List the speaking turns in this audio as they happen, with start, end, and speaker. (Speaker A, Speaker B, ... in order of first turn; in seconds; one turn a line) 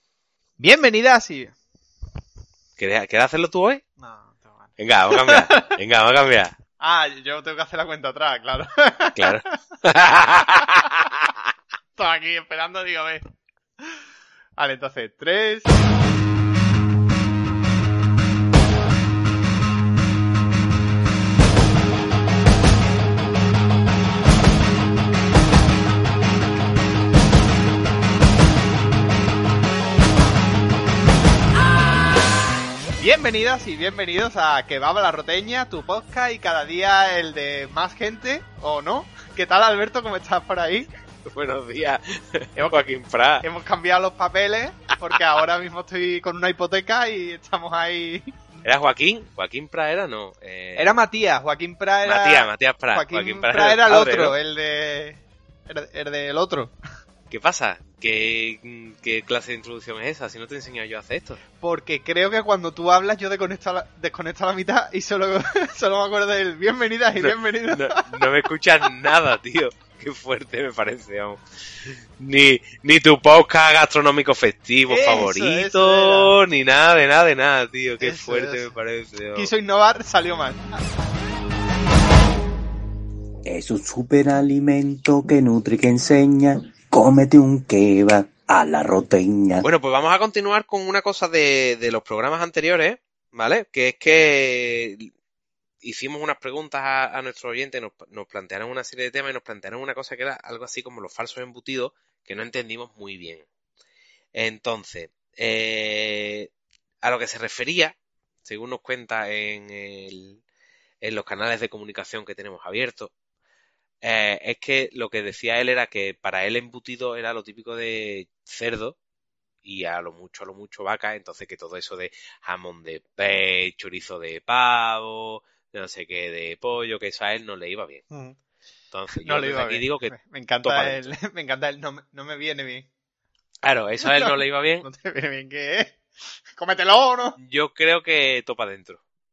Speaker A: 0.6-1.5
Speaker B: 2.8-3.8
Speaker A: 4.0-5.8
Speaker B: 4.8-6.5
Speaker A: 6.8-9.5
Speaker B: 9.2-11.3
Speaker A: 12.0-13.3
Speaker A: 14.6-15.8
Speaker A: 33.0-40.9
Speaker B: 41.2-43.5
Speaker A: 43.4-48.4
Speaker B: 48.6-50.9
Speaker A: 50.8-56.7
Speaker B: 52.0-54.3
Speaker B: 57.3-61.4
Speaker A: 61.6-68.3
Speaker B: 67.2-71.4
Speaker B: 72.2-79.5
Speaker A: 74.9-76.3
Speaker A: 78.0-78.7
Speaker A: 79.3-80.7
Speaker C: 83.5-89.6
Speaker B: 89.6-95.1
Speaker B: 95.8-103.4
Speaker B: 104.3-106.5
Speaker B: 107.0-110.4
Speaker B: 111.0-113.1
Speaker B: 114.0-119.0
Speaker B: 119.6-128.0
Speaker A: 128.1-128.3
Speaker B: 128.9-131.1
Speaker A: 129.2-132.9
Speaker B: 133.6-134.8
Speaker A: 134.0-137.4
Speaker B: 137.4-139.0